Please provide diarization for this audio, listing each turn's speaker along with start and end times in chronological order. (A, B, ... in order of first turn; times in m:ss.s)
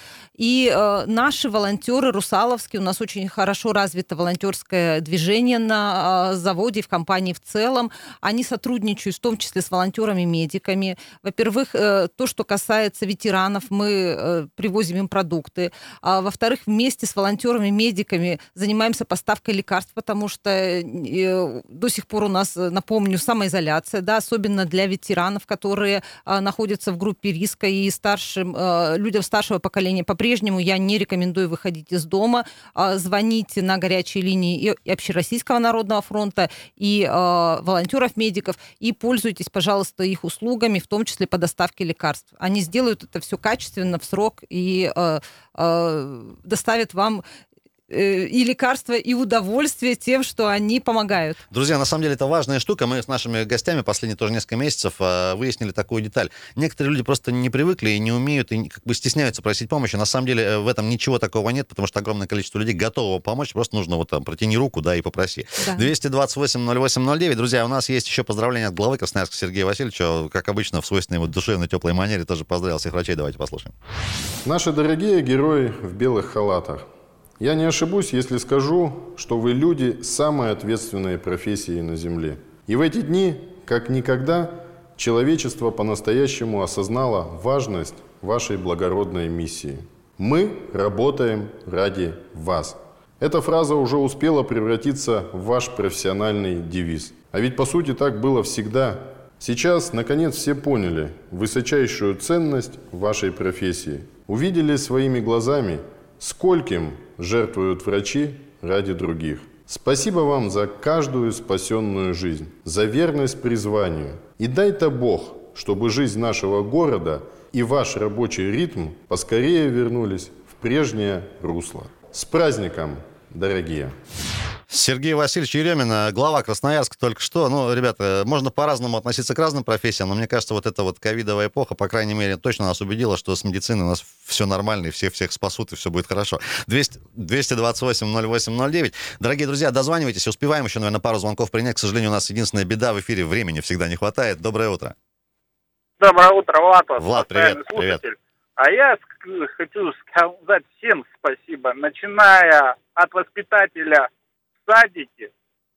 0:00.4-0:47.2 A
0:47.9-0:51.4 A
0:51.5-1:13.8 B
1:05.6-1:05.9 A
1:14.4-1:16.9 C
1:17.4-2:03.9 C
2:04.7-2:25.0 B
2:26.0-2:34.1 D
2:27.0-2:28.0 B
2:34.7-2:35.3 D